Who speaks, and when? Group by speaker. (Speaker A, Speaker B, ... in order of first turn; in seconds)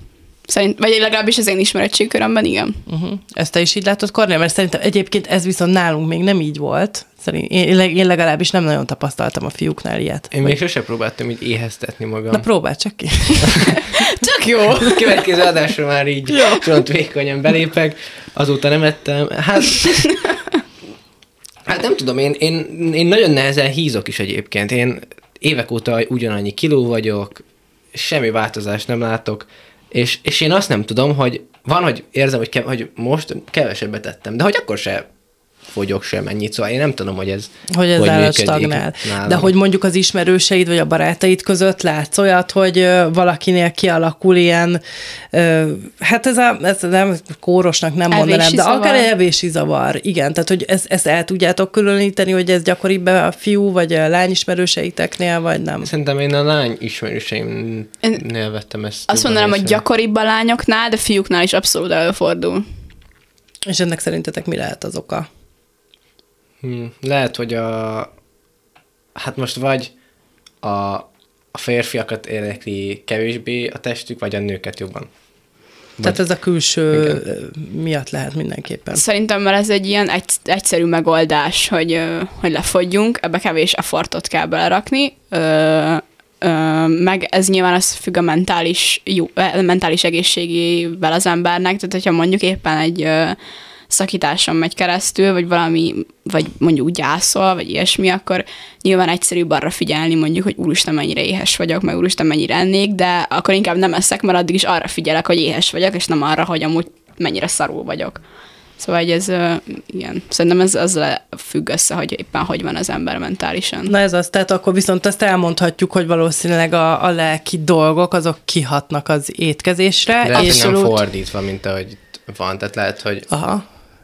Speaker A: 0.5-2.8, 14.0-15.2, 48.1-49.1, 59.1-62.6, 78.9-93.4, 93.9-108.2, 108.8-113.9, 120.3-120.8
Speaker B: 2.9-10.6, 12.3-13.8, 16.3-16.6, 37.7-44.8, 45.3-55.9, 63.7-65.3, 76.0-79.0, 113.9-120.9, 123.3-123.6
Speaker C: 10.3-12.5, 14.8-20.3, 21.6-35.1, 35.6-39.5, 55.8-59.8, 66.6-68.1, 69.2-69.9, 70.6-75.1, 76.0-76.3, 76.9-77.2, 120.2-123.3